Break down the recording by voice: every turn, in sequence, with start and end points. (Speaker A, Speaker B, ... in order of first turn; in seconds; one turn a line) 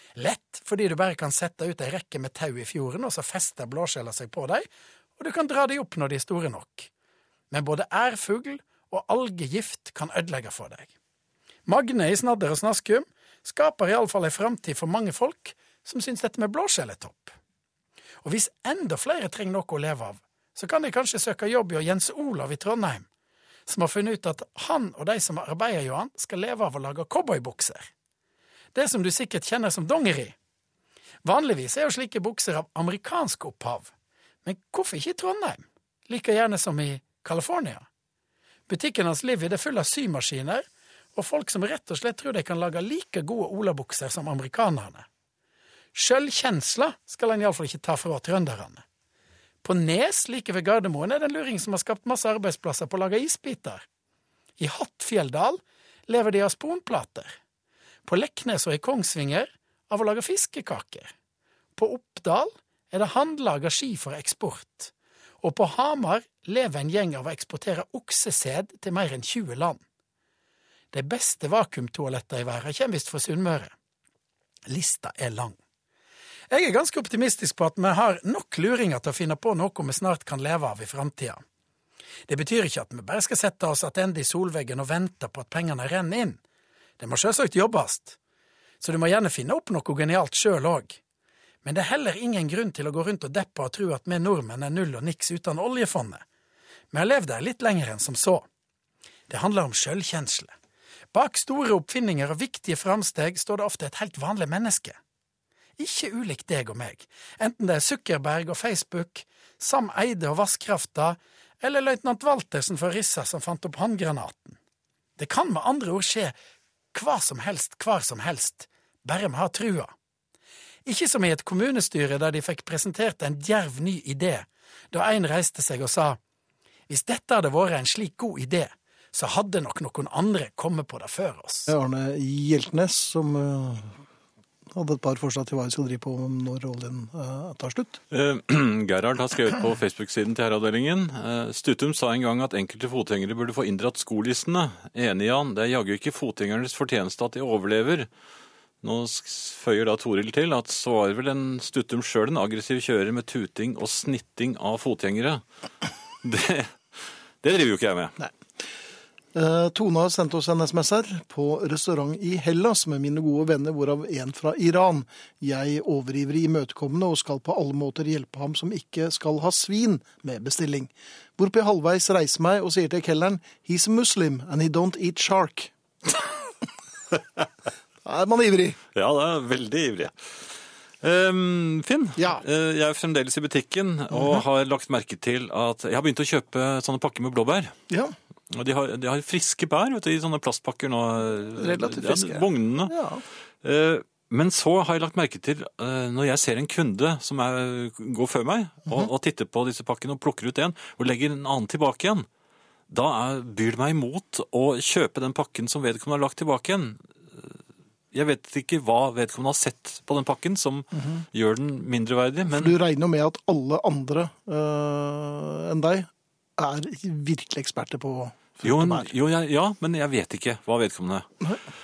Speaker A: 0.2-4.7
Speaker A: 5.2-6.9
Speaker A: 7.5-10.9
Speaker A: 11.7-17.4
Speaker A: 18.2-23.1
Speaker A: 23.7-27.9
Speaker A: 28.7-30.4
Speaker A: 31.2-33.9
Speaker A: 34.5-37.9
Speaker A: 38.7-45.1
Speaker A: 45.9-48.8
Speaker A: 49.6-53.8
Speaker A: 54.6-57.4
Speaker A: 58.0-61.1
Speaker A: 61.8-69.8
Speaker A: 70.9-73.7
Speaker A: 74.7-75.6
Speaker A: 76.5-81.4
Speaker A: 82.3-86.4
Speaker A: 87.0-88.2
Speaker A: 88.8-91.0
Speaker A: 91.6-96.2
Speaker A: 96.9-98.5
Speaker A: 99.3-100.5
Speaker A: 101.1-105.0
Speaker A: 105.8-114.6
Speaker A: 115.2-116.3
Speaker A: 116.9-119.9
Speaker A: 120.8-126.2
Speaker A: 126.9-131.7
Speaker B: 131.7-134.0
Speaker B: 134.7-138.0
Speaker C: 138.1-148.1
Speaker C: 148.8-155.4
Speaker C: 156.2-156.8
Speaker C: 157.4-158.2
Speaker B: 159.3-175.7
Speaker B: 178.0-178.8
Speaker C: 178.9-180.1
Speaker C: 181.0-187.7
Speaker B: 182.2-182.4
Speaker B: 184.1-184.4
Speaker B: 187.9-188.2
Speaker C: 188.5-193.0
Speaker B: 191.6-193.2
Speaker C: 193.6-202.3
Speaker C: 202.9-207.6
Speaker C: 208.1-212.7
Speaker B: 211.0-211.2
Speaker B: 212.5-219.1
Speaker C: 218.6-221.3